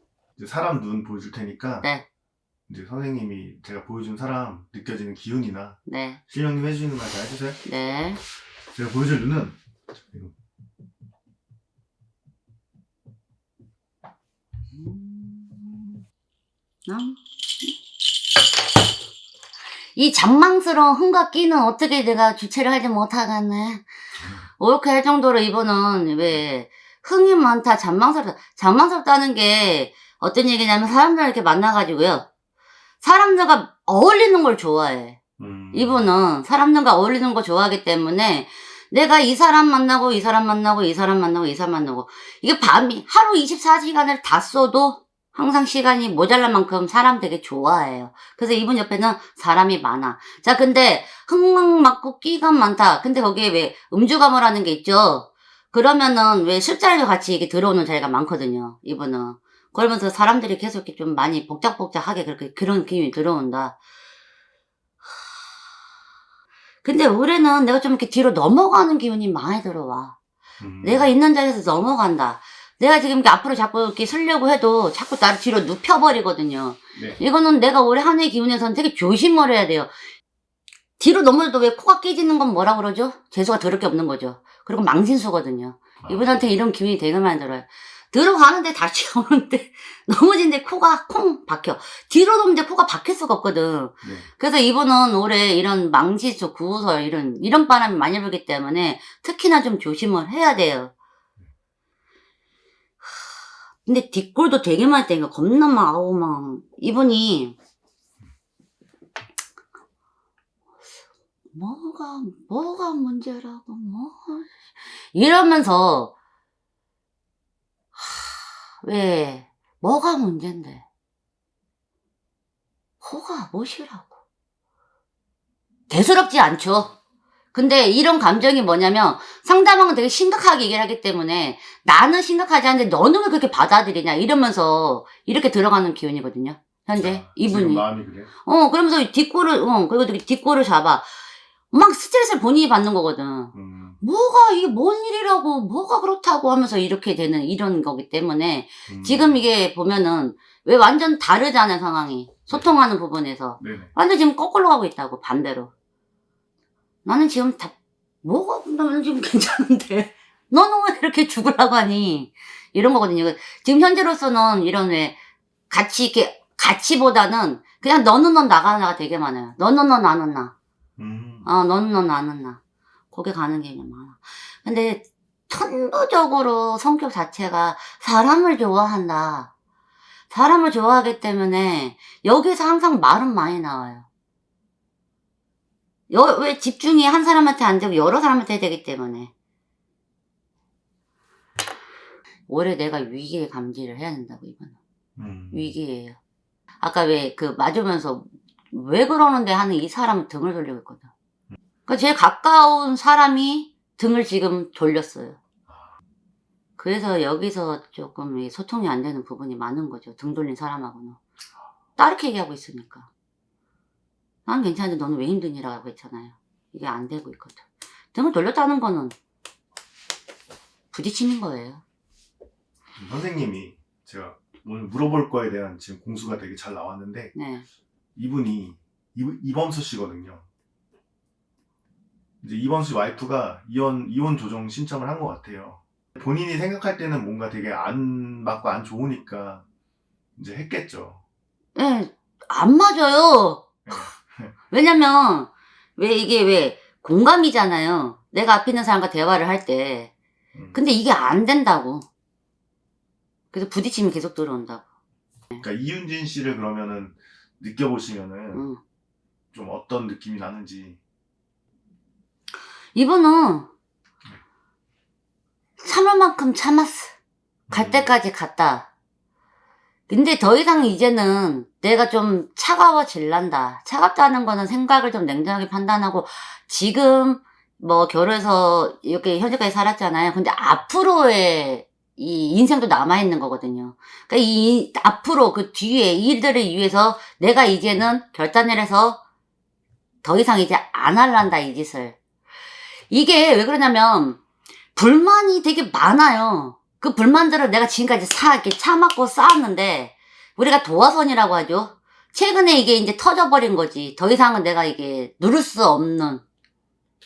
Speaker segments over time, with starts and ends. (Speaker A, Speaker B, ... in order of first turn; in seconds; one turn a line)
Speaker A: 0.4-1.9
Speaker A: 2.7-7.6
Speaker B: 5.8-6.2
Speaker B: 7.6-8.2
Speaker A: 8.7-9.6
Speaker B: 14.7-16.0
Speaker B: 16.9-17.7
Speaker B: 19.9-23.8
Speaker B: 24.6-32.3
Speaker B: 33.0-35.2
Speaker A: 35.4-36.1
Speaker B: 35.7-63.8
Speaker B: 66.8-70.2
Speaker A: 70.6-71.1
Speaker B: 70.8-79.9
Speaker B: 81.0-100.9
Speaker A: 86.0-86.5
Speaker A: 94.0-94.3
Speaker B: 103.8-107.6
Speaker B: 111.5-114.5
Speaker B: 115.1-116.1
Speaker B: 118.0-120.8
Speaker B: 123.0-124.1
Speaker B: 125.9-127.0
Speaker B: 127.5-137.8
Speaker A: 137.0-138.3
Speaker B: 138.4-141.1
Speaker B: 141.7-155.7
Speaker A: 143.5-144.0
Speaker A: 148.9-149.4
Speaker A: 153.6-153.9
Speaker B: 157.0-165.2
Speaker B: 165.7-170.5
Speaker A: 171.0-171.5
Speaker B: 171.4-172.6
Speaker B: 173.1-179.5
Speaker B: 180.3-184.1
Speaker B: 186.1-189.3
Speaker B: 192.5-194.8
Speaker A: 195.2-195.8
Speaker B: 195.5-196.2
Speaker B: 196.8-201.1
Speaker B: 201.8-205.4
Speaker A: 205.7-205.9
Speaker B: 206.8-211.2
Speaker B: 212.0-213.1
Speaker B: 214.4-219.1
Speaker B: 220.9-221.8
Speaker A: 222.9-227.3
Speaker B: 227.3-227.7
Speaker A: 228.2-230.4
Speaker A: 232.4-239.6
Speaker A: 240.3-241.2
Speaker B: 241.8-244.1
Speaker A: 243.8-244.5
Speaker B: 244.7-250.1
Speaker A: 250.5-250.8
Speaker B: 250.7-252.1
Speaker B: 253.5-254.8
Speaker A: 255.6-258.6
Speaker B: 258.5-258.8
Speaker A: 259.5-261.0
Speaker B: 262.9-263.7
Speaker B: 265.8-267.1
Speaker A: 267.7-268.1
Speaker B: 267.7-268.9
Speaker B: 270.1-289.2
Speaker B: 290.2-292.2
Speaker B: 293.1-294.4
Speaker B: 294.9-306.4